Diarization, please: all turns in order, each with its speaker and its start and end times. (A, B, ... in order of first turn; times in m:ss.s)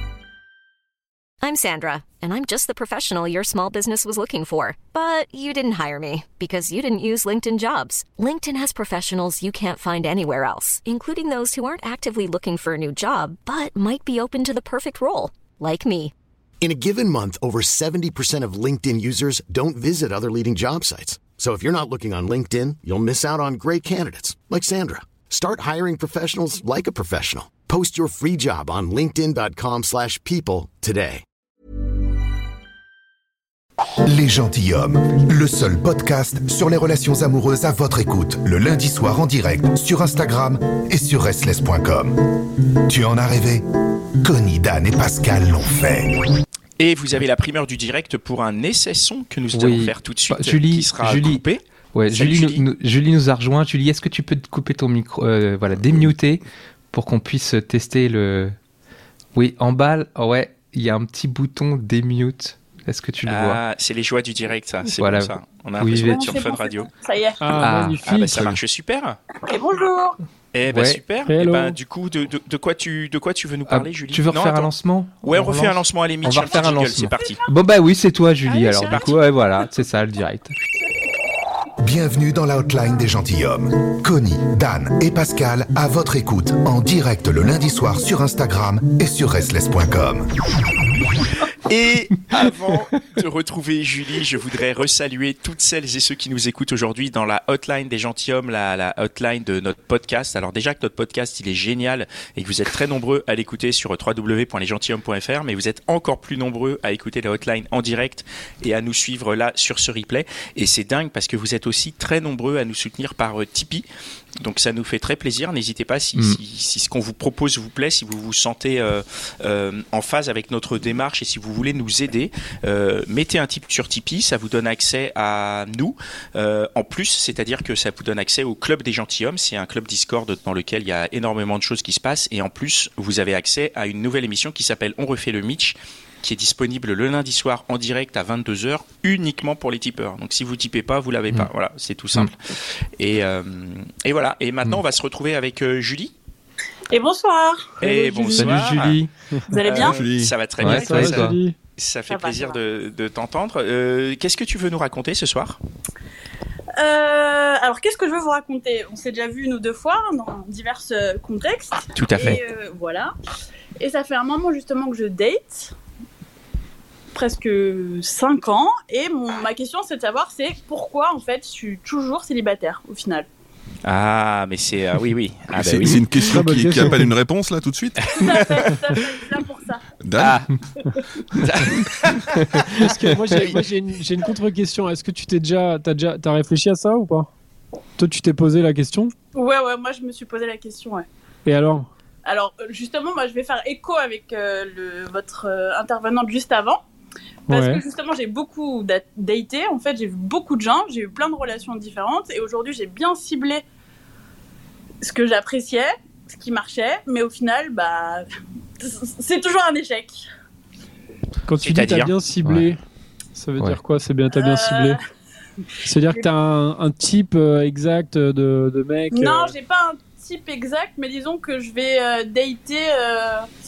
0:01.4-0:16.1 A
0:16.6-0:31.2 B
0:34.1-0:43.6 C
0:44.2-0:46.3 C
0:46.8-0:52.6 D
0:49.5-0:58.5 E
0:59.4-1:03.6 E
1:03.3-1:06.9 D
1:04.9-1:06.4 E
1:05.8-1:07.5 F
1:07.4-1:08.5 G
1:07.6-1:08.5 E
1:07.6-1:09.2 D
1:09.5-1:10.2 F
1:10.5-1:14.7 D
1:10.7-1:11.0 E
1:11.2-1:11.8 G
1:13.7-1:20.5 E
1:15.2-1:17.4 D
1:17.2-1:17.5 F
1:18.4-1:19.2 F
1:18.9-1:19.1 D
1:21.8-1:30.3 C
1:31.7-1:53.9 D
1:54.4-2:22.3 D
2:23.0-2:26.1 D
2:26.9-2:27.9 F
2:27.8-2:29.0 D
2:27.8-2:29.5 G
2:28.3-2:29.0 E
2:29.5-2:30.0 F
2:29.6-2:35.6 D
2:29.8-2:30.7 H
2:30.6-2:31.4 E
2:30.7-2:31.6 G
2:32.1-2:32.6 F
2:36.8-2:43.1 F
2:42.0-2:42.4 D
2:43.8-2:45.7 F
2:47.2-2:53.3 F
2:53.8-2:56.1 D
2:55.5-2:59.0 H
2:56.2-2:57.1 G
2:58.1-2:59.8 F
3:00.0-3:00.4 H
3:00.2-3:00.5 D
3:01.3-3:03.7 D
3:02.5-3:03.0 E
3:02.8-3:07.3 G
3:08.0-3:09.1 G
3:09.3-3:11.1 F
3:11.5-3:11.9 G
3:12.2-3:16.8 F
3:17.5-3:17.8 G
3:17.5-3:23.6 F
3:25.0-3:28.3 F
3:28.8-3:30.2 F
3:31.5-3:32.8 G
3:31.6-3:32.1 D
3:33.4-3:35.0 G
3:34.3-3:35.0 F
3:35.8-3:39.5 G
3:36.0-3:36.3 F
3:39.1-3:43.4 F